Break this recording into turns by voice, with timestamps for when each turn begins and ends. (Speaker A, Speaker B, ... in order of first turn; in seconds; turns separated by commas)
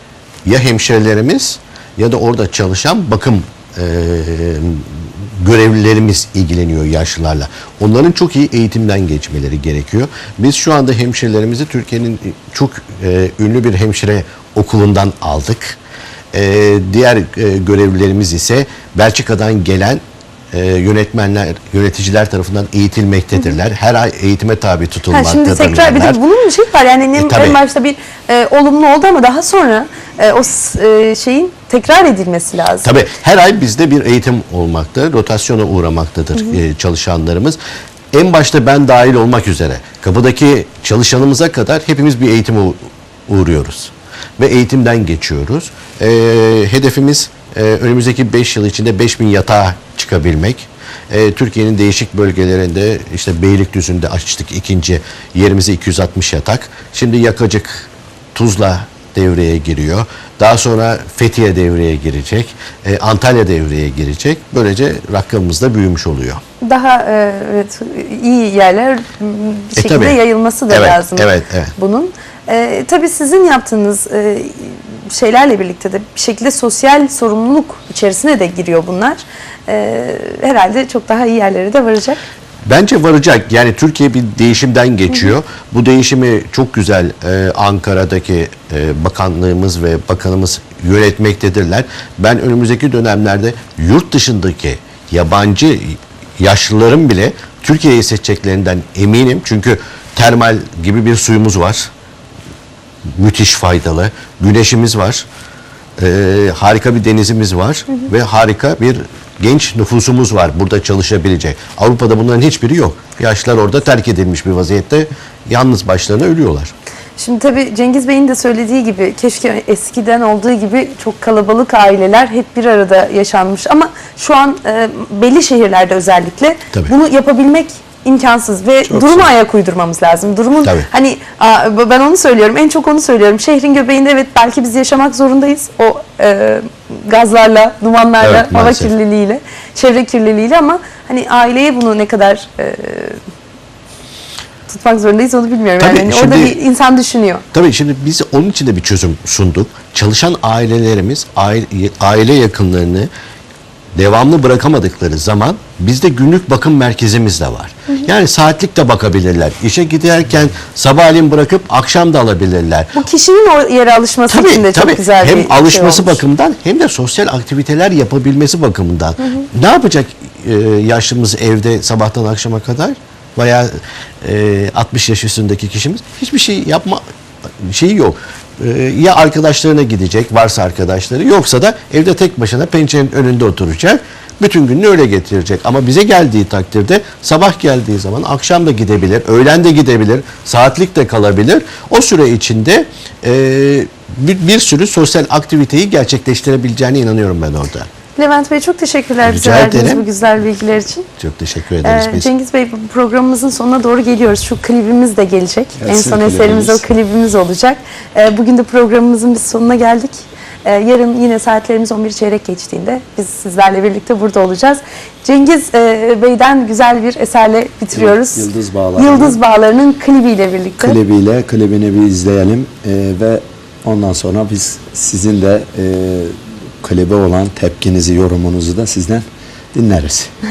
Speaker A: 0.4-15.8, Speaker A: 16.3-20.0, Speaker A: 20.5-26.2, Speaker B: 25.1-32.9, Speaker A: 27.1-27.6, Speaker A: 32.8-37.6, Speaker A: 38.1-66.4, Speaker B: 66.6-82.2, Speaker A: 69.8-70.2, Speaker A: 70.7-71.7, Speaker A: 82.7-101.9, Speaker A: 103.2-105.2, Speaker A: 106.0-116.7, Speaker B: 117.2-143.2, Speaker C: 128.9-129.2, Speaker A: 138.2-138.9, Speaker B: 144.7-147.4, Speaker A: 145.8-146.6, Speaker A: 147.5-153.1, Speaker A: 153.9-163.0, Speaker B: 162.9-166.2, Speaker A: 164.3-173.7, Speaker A: 174.2-177.0, Speaker A: 177.6-197.9, Speaker B: 198.2-201.1, Speaker A: 199.2-200.0, Speaker A: 201.2-202.3, Speaker B: 201.8-221.0, Speaker C: 205.8-206.8, Speaker C: 217.9-219.4, Speaker C: 220.8-230.3